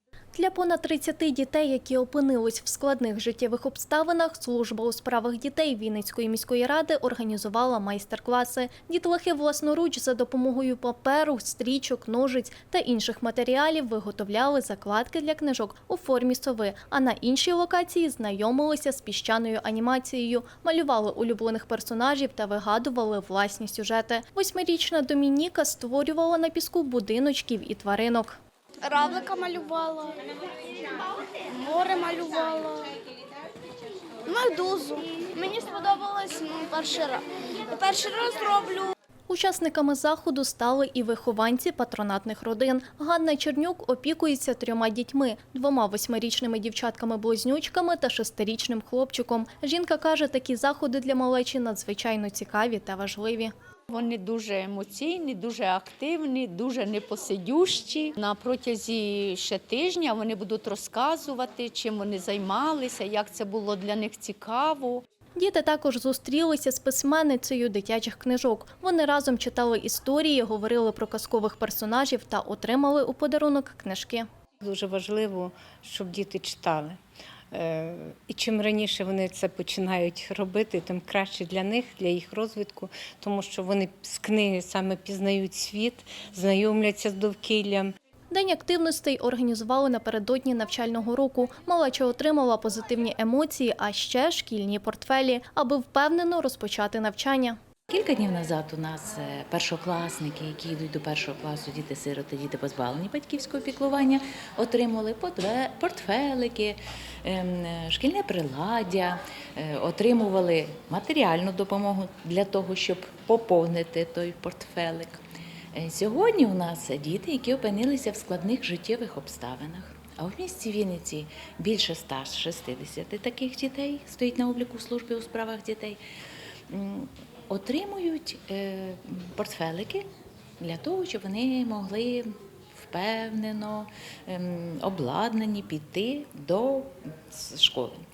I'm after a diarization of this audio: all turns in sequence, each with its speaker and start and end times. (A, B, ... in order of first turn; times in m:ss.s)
0:00.4-0:28.4 A
0:28.8-0:30.2 B
0:31.5-0:32.9 B
0:34.3-0:38.9 B
0:39.3-0:53.5 A
0:53.9-1:05.0 C
1:05.4-1:14.3 A
1:14.6-1:17.0 D
1:17.5-1:27.9 D
1:28.3-1:37.6 A
1:37.9-1:55.2 E
1:55.8-2:06.0 E
2:06.7-2:10.0 E
2:10.6-2:18.0 E